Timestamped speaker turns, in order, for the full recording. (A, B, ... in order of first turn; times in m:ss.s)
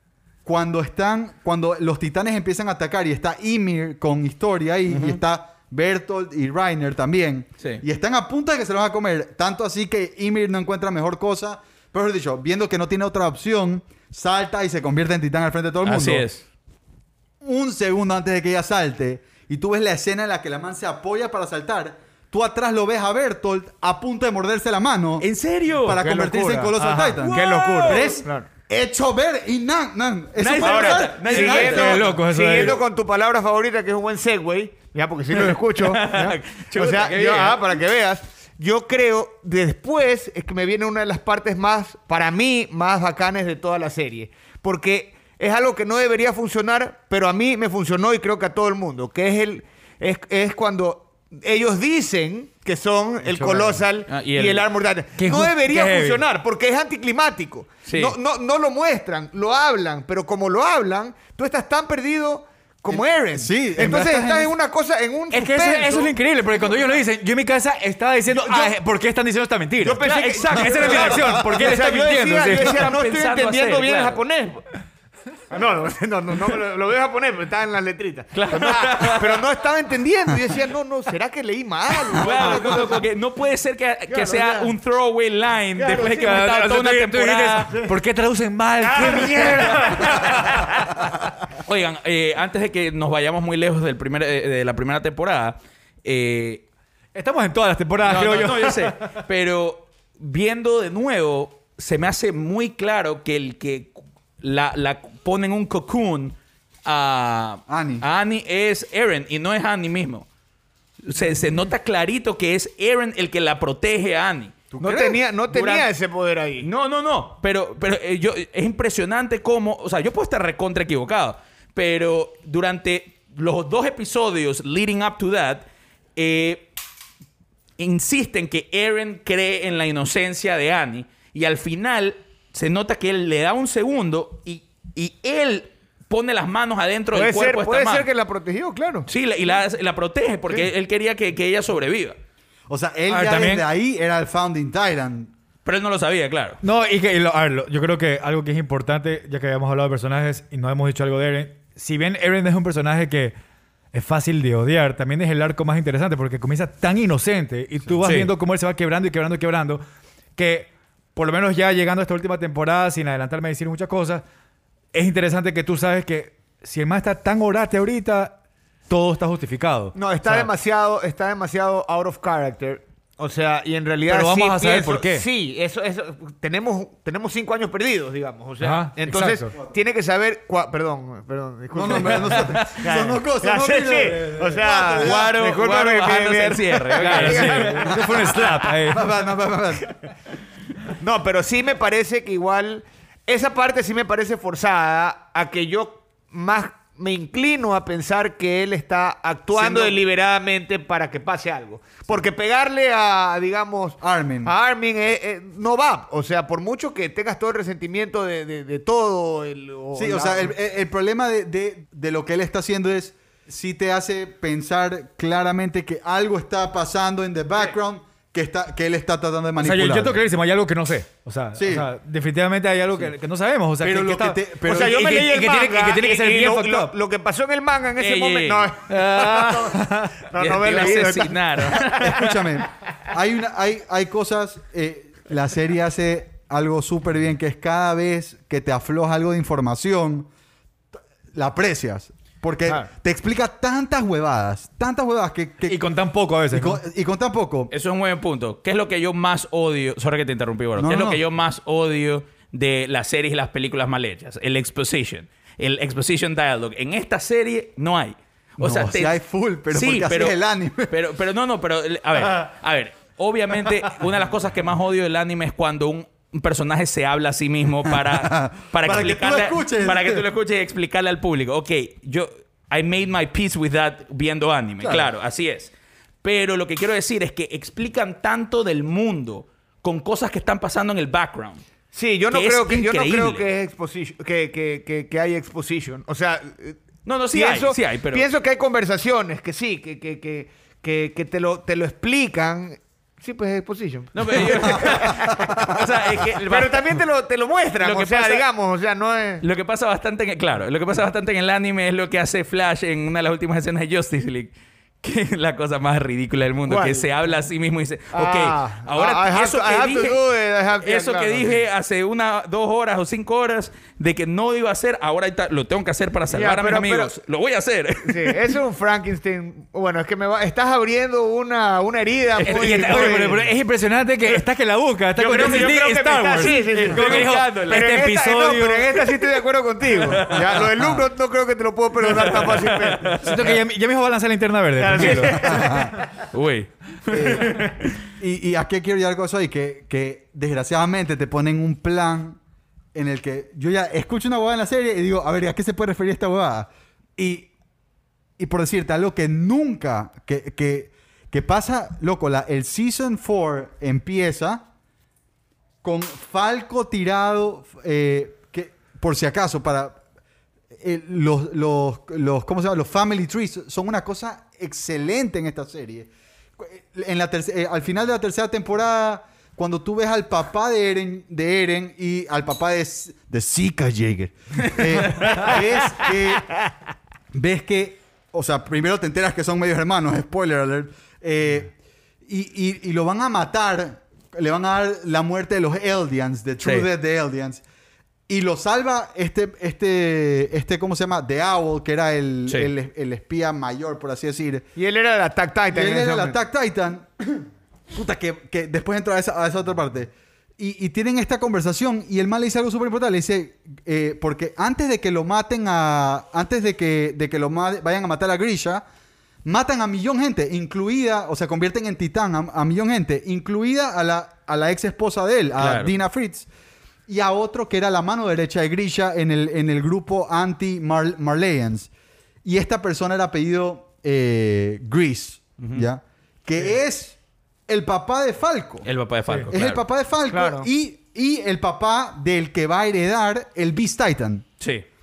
0:00.4-0:16.2 A
0:04.9-0:05.2 B
0:15.8-0:16.4 B
0:17.4-0:25.3 A
0:25.2-0:26.1 B
0:25.8-0:32.0 A
0:26.0-0:28.5 C
0:27.2-0:28.2 B
0:30.4-0:32.0 B
0:30.6-1:06.1 C
0:31.5-0:32.8 D
0:35.3-0:37.8 B
0:53.3-0:53.8 D
0:54.1-0:54.6 B
0:55.2-0:56.2 D
0:57.9-0:58.1 B
1:02.9-1:04.5 A
1:05.3-1:12.8 D
1:08.3-1:08.7 C
1:09.8-1:14.6 C
1:10.0-1:11.2 B
1:12.5-1:14.2 B
1:15.5-1:23.0 C
1:18.3-1:19.4 B
1:22.1-1:27.7 B
1:22.2-1:23.0 A
1:24.1-1:24.7 C
1:25.8-1:26.3 C
1:25.9-1:30.7 D
1:28.8-1:30.7 C
1:29.8-1:30.5 B
1:31.6-1:36.6 B
1:37.1-1:39.1 D
1:38.0-1:50.3 B
1:47.7-1:48.0 A
1:51.0-1:54.6 B
1:54.7-1:55.2 A
1:54.8-1:56.7 C
1:55.5-1:55.9 B
1:56.6-2:05.6 B
2:06.2-2:06.7 B
2:07.8-2:18.1 B
2:17.1-2:19.1 C
2:19.1-2:22.2 B
2:22.7-2:25.3 A
2:23.1-2:23.6 D
2:25.6-2:26.6 B
2:26.6-2:33.3 D
2:33.9-2:39.8 D
2:38.0-2:38.3 B
2:40.4-2:44.2 D
2:44.9-2:48.4 D
2:48.9-2:50.5 D
2:49.9-3:08.7 C
2:54.1-2:55.2 D
2:58.6-2:59.5 D
3:01.7-3:05.3 A
3:02.3-3:02.7 B
3:04.9-3:08.0 B
3:07.0-3:09.1 D
3:08.9-3:09.9 A
3:11.0-3:30.5 C
3:19.5-3:19.9 A
3:24.0-3:24.5 A
3:29.9-3:40.2 A
3:39.6-3:46.9 D
3:41.6-3:41.9 A
3:43.8-3:45.1 A
3:44.6-3:52.1 C
3:48.0-3:48.7 B
3:48.9-3:50.2 D
3:50.4-3:52.4 B
3:51.9-4:00.3 A
4:01.3-4:05.8 A
4:05.6-4:06.8 D
4:06.5-4:07.7 A
4:07.7-4:19.2 B
4:10.8-4:11.2 A
4:18.6-4:20.9 A
4:19.7-4:20.4 B
4:20.9-4:35.7 B
4:27.8-4:30.2 A
4:34.8-4:35.1 A
4:36.2-4:41.6 B
4:41.9-4:46.8 C
4:42.3-4:43.4 B
4:47.0-4:48.2 B
4:47.3-4:55.8 C
4:54.1-4:57.0 B
4:55.3-4:55.8 A
4:56.4-4:59.4 C
4:57.8-4:58.4 B
4:59.4-5:10.2 B
5:06.6-5:07.0 C
5:08.1-5:11.6 C
5:10.8-5:18.5 B
5:16.3-5:17.2 C
5:18.0-5:23.5 C
5:22.4-5:29.2 D
5:22.6-5:23.1 B
5:25.2-5:33.1 C
5:25.4-5:25.6 B
5:26.4-5:27.8 B
5:30.0-5:30.7 B
5:30.7-5:31.0 A
5:32.0-5:33.6 B
5:33.2-5:35.5 D
5:34.8-5:36.0 C
5:35.0-5:37.9 B
5:35.1-5:35.9 A
5:37.1-5:42.4 A
5:42.9-5:47.5 A
5:48.4-5:54.6 A
5:55.8-6:00.0 A
6:00.7-6:16.6 A
6:15.0-6:15.5 B
6:17.3-6:21.7 A
6:22.2-6:27.6 A
6:28.3-6:34.6 A
6:34.8-6:36.4 C
6:35.7-6:48.8 A
6:49.4-6:56.5 A
6:55.6-6:55.9 B
6:57.1-7:01.9 A
7:02.4-7:08.8 A
7:05.6-7:05.9 B
7:08.8-7:09.8 B
7:09.3-7:09.5 D
7:09.5-7:14.4 A
7:10.3-7:10.7 C